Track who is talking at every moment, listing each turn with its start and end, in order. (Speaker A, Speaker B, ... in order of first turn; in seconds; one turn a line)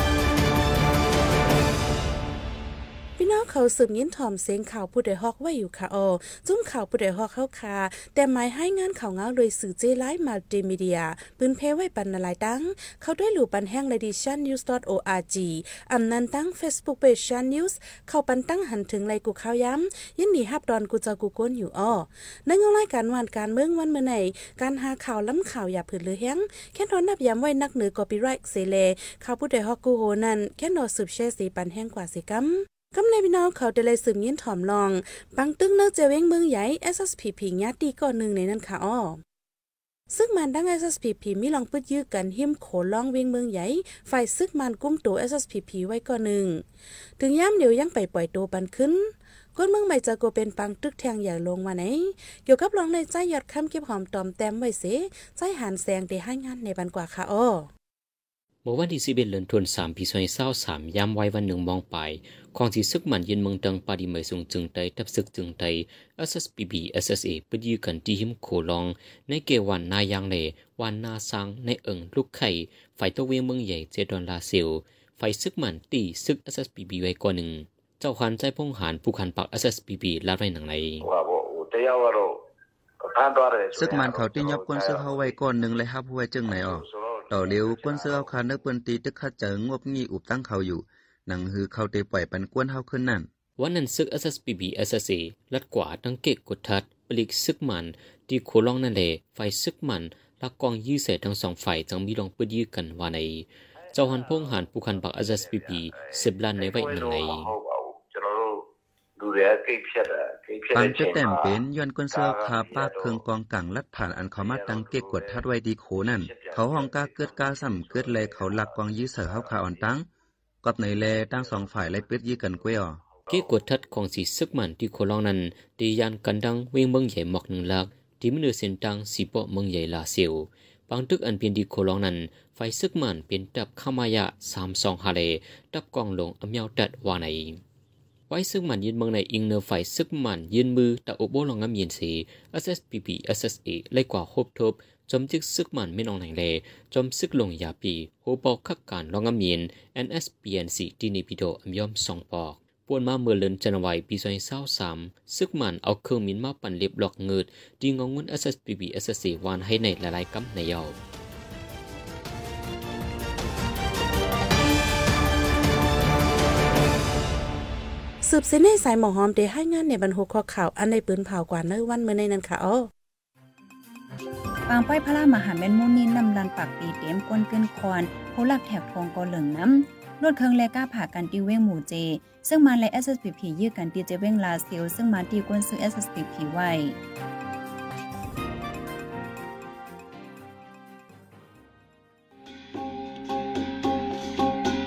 Speaker A: 3.2-39.2
Speaker A: 40.1-46.6
Speaker A: 47.2-49.0
Speaker A: 49.5-57.7
Speaker B: 58.6-81.0
Speaker C: 81.0-82.4
Speaker C: 83.0-85.5
Speaker D: 83.7-93.3
Speaker C: 86.4-88.4
Speaker B: 93.6-107.5
Speaker C: 103.8-113.2
Speaker D: 110.7-120.0
Speaker C: 114.0-115.4
Speaker C: 116.0-119.9
Speaker D: 120.6-123.0
Speaker C: 120.9-123.6
Speaker B: 123.3-137.6
Speaker B: 138.3-161.0
Speaker A: 168.2-172.9
Speaker E: 174.7-187.0